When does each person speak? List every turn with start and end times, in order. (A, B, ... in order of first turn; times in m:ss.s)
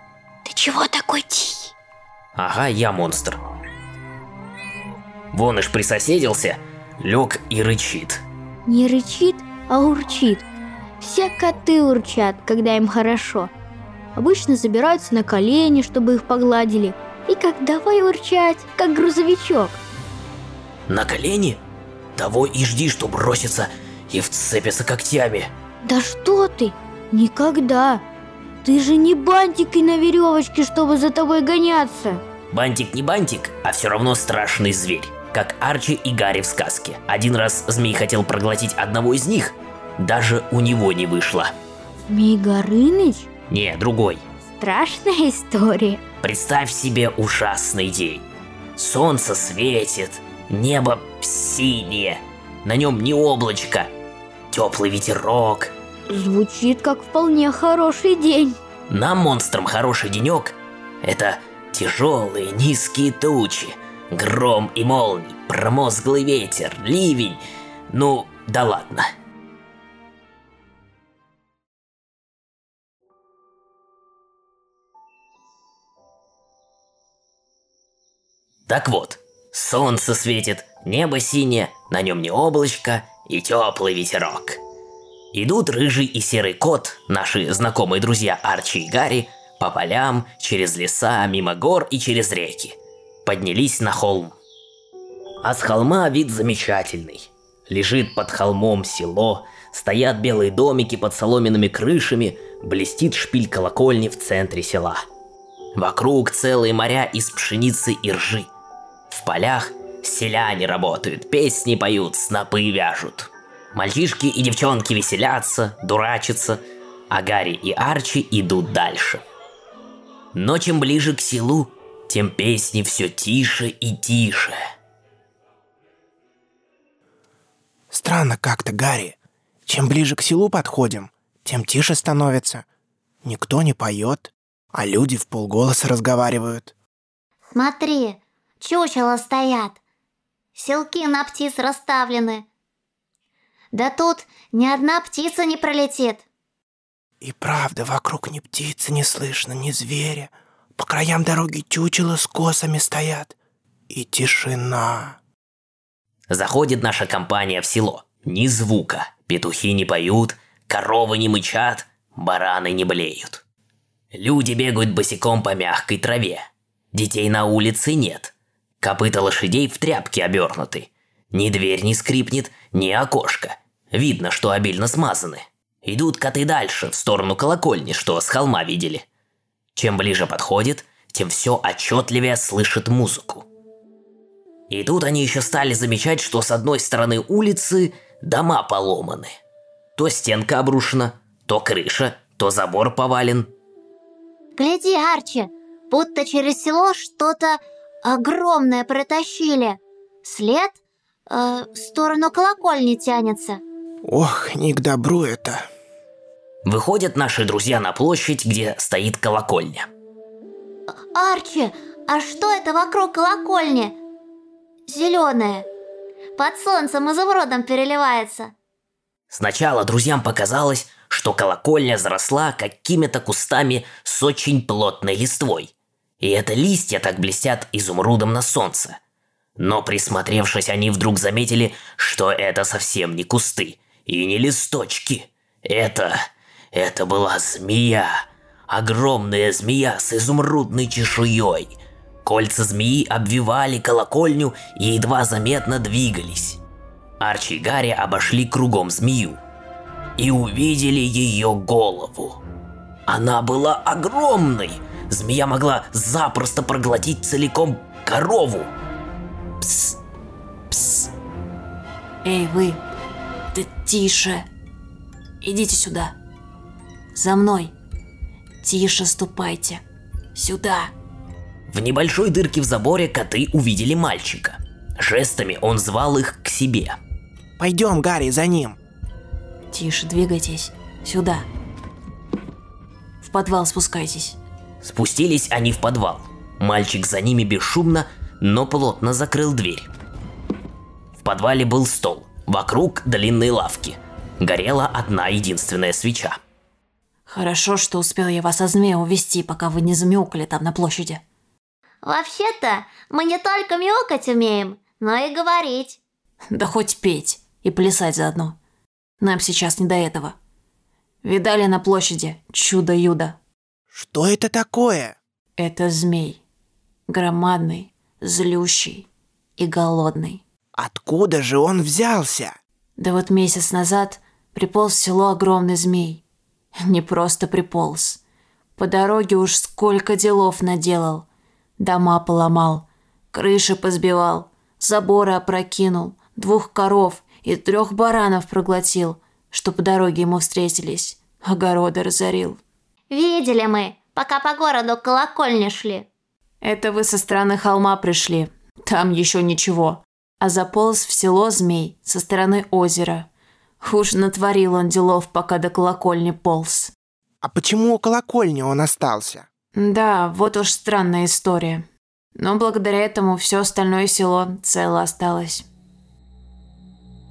0:00.4-0:01.7 A
0:02.4-0:03.4 B
0:05.3-0:08.2 B
0:08.7-0:10.4 A
0:11.0-0:13.5 A
0:14.1-0:19.8 A
0:20.9-0:21.6 B
0:22.2-0:25.5 B
0:25.8-0:28.0 A
0:28.6-0:32.2 A
0:32.5-0:41.5 B
0:42.1-0:43.3 A
0:43.5-0:44.2 B
0:44.5-0:46.0 A
0:46.2-0:48.2 B
0:48.8-0:53.9 B
0:54.5-0:55.7 B
0:56.1-0:58.6 A
0:58.9-1:09.1 B
1:18.7-1:24.6 B
1:25.3-1:34.4 B
1:35.4-1:45.0 B
1:45.8-1:48.5 B
1:49.1-1:59.2 B
2:00.3-2:04.6 B
2:07.9-2:09.2 C
2:09.7-2:12.6 C
2:13.2-2:16.7 C
2:17.5-2:19.8 D
2:20.5-2:22.5 D
2:23.7-2:26.2 D
2:27.2-2:33.3 C
2:33.9-2:35.2 C
2:36.3-2:43.4 B
2:44.1-2:59.0 B
2:59.8-3:03.5 B
3:04.7-3:09.3 B
3:10.0-3:13.5 B
3:14.6-3:20.8 D
3:21.3-3:23.6 D
3:24.0-3:25.7 C
3:26.7-3:29.9 B
3:31.1-3:34.0 D
3:34.9-3:35.7 D
3:36.4-3:38.5 D
3:39.3-3:49.0 B
3:49.6-3:56.2 B
3:56.7-4:06.6 B
4:07.2-4:09.4 B
4:10.2-4:12.4 B
4:13.1-4:18.7 B
4:19.6-4:19.9 E
4:20.7-4:21.1 E
4:22.2-4:22.8 E
4:23.5-4:24.4 E
4:25.4-4:26.2 E
4:27.1-4:27.7 E
4:28.6-4:29.8 E
4:30.3-4:30.9 E
4:31.7-4:37.0 B
4:37.6-4:38.8 C
4:39.7-4:41.4 E
4:43.2-4:44.4 E
4:44.8-4:49.9 B
4:51.2-4:56.4 B
4:57.3-5:01.2 E
5:02.0-5:06.0 D
5:06.5-5:08.6 E
5:09.2-5:10.4 E
5:11.2-5:13.4 E
5:13.9-5:15.2 C
5:15.6-5:16.4 E
5:17.1-5:20.4 E
5:20.8-5:22.5 C
5:23.0-5:26.2 E
5:26.8-5:28.2 E
5:28.8-5:31.2 E
5:31.8-5:42.6 E
5:43.1-5:46.1 D
5:46.6-5:53.3 E
5:53.8-5:56.9 E
5:57.4-5:59.5 C
5:59.7-6:05.6 E